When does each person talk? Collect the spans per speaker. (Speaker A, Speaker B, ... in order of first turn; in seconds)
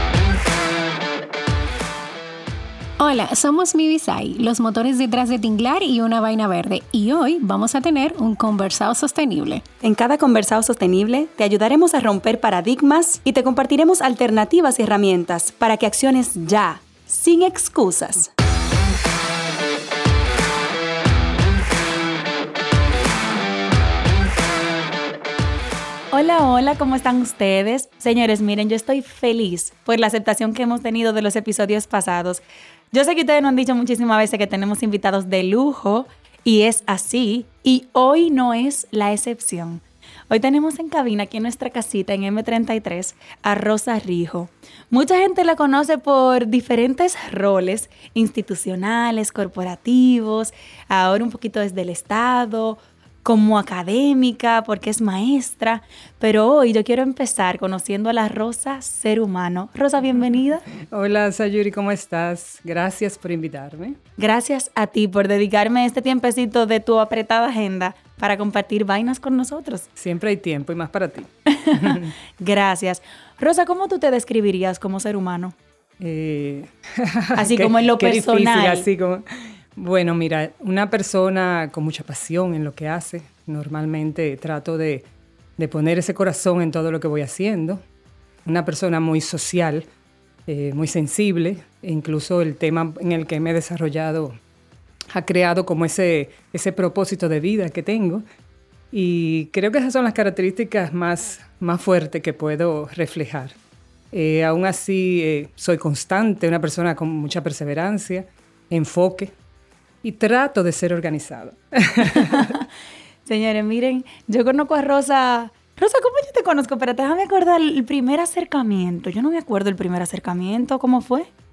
Speaker A: 3.0-9.6
Speaker B: 9.8-18.3, 26.1-60.7, 64.2-69.9, 71.5-75.5, 77.3-78.9, 112.0-112.6, 113.2-121.3
Speaker C: 60.8-64.0, 70.0-72.1, 76.0-87.8, 88.5-89.9, 90.5-94.3, 95.1-98.2, 98.9-103.6, 104.1-109.3, 110.0-112.5